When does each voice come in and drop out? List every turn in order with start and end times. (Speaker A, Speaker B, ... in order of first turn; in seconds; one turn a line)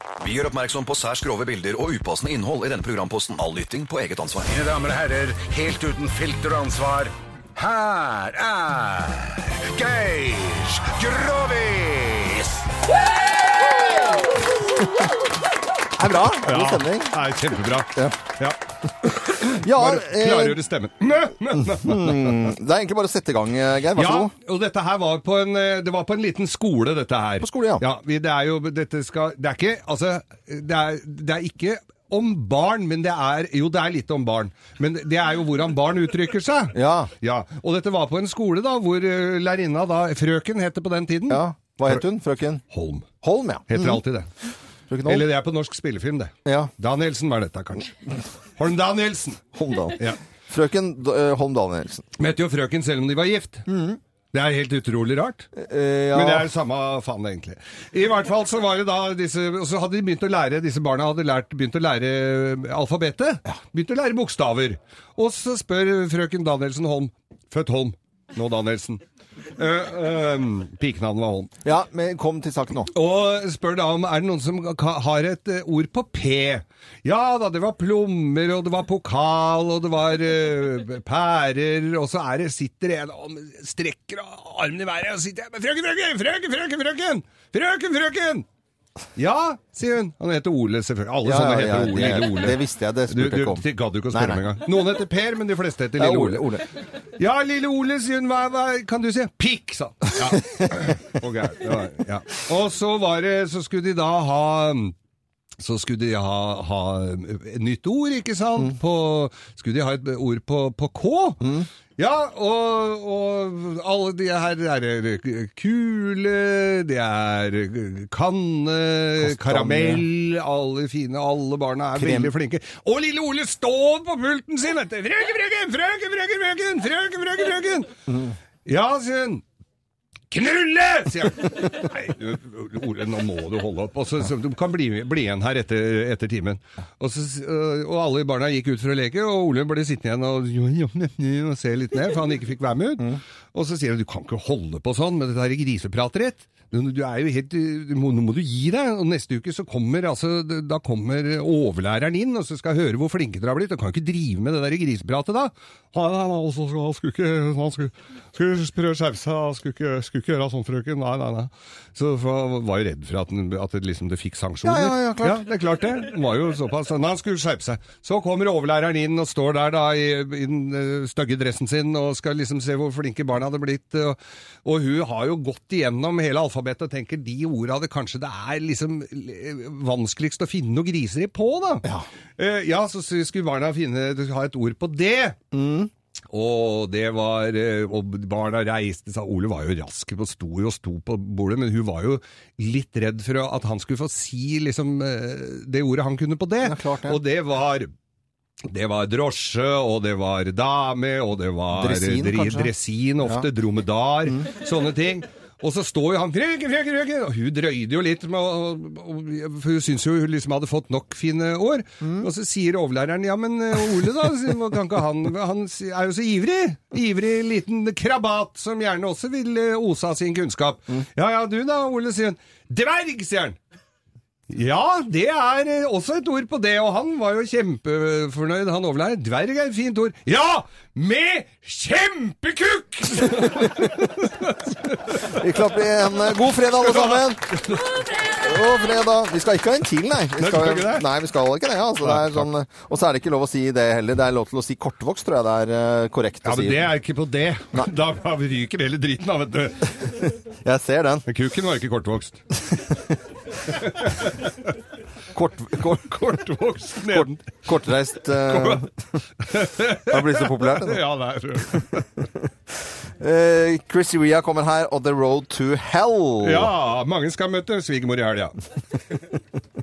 Speaker A: 0.2-4.5
Speaker B: 4.5-12.4
Speaker C: 15.9-17.2
Speaker D: 16.4-22.5
Speaker C: 19.4-20.6
Speaker C: 21.6-24.3
Speaker D: 23.9-42.0
Speaker C: 27.4-27.9
Speaker C: 36.7-37.1
Speaker C: 41.3-42.6
Speaker D: 42.7-43.1
Speaker C: 43.2-44.0
Speaker D: 43.7-44.3
Speaker C: 44.9-45.3
Speaker D: 45.0-48.0
Speaker C: 46.5-46.7
Speaker D: 48.6-49.4
Speaker C: 49.5-52.1
Speaker D: 52.2-53.6
Speaker C: 53.7-54.0
Speaker D: 54.3-55.5
Speaker C: 55.6-56.5
Speaker D: 56.1-69.0
Speaker D: 69.5-71.5
Speaker C: 71.6-72.9
Speaker D: 72.9-88.5
Speaker D: 89.2-96.6
Speaker C: 91.2-94.4
Speaker C: 96.0-96.6
Speaker D: 97.1-104.9
Speaker D: 105.6-127.9
Speaker C: 119.2-120.0
Speaker C: 122.0-122.3
Speaker D: 128.7-129.4
Speaker D: 130.3-181.9
Speaker C: 164.6-165.4
Speaker D: 182.4-185.4
Speaker C: 185.5-185.9
Speaker D: 186.3-197.9
Speaker C: 196.6-197.2
Speaker D: 198.7-223.6
Speaker C: 201.7-202.7
Speaker C: 203.2-203.5
Speaker C: 212.0-212.3
Speaker D: 224.5-235.4
Speaker C: 235.2-237.5
Speaker D: 236.5-238.0
Speaker C: 238.3-246.9
Speaker D: 240.3-241.1
Speaker D: 242.0-242.5
Speaker D: 246.4-250.4
Speaker C: 250.6-251.3
Speaker D: 251.3-252.4
Speaker D: 253.7-254.7
Speaker C: 255.3-256.0
Speaker D: 255.6-257.6
Speaker C: 257.1-258.9
Speaker D: 258.4-258.9
Speaker D: 259.4-262.1
Speaker C: 260.0-261.0
Speaker C: 263.2-266.7
Speaker D: 266.4-268.6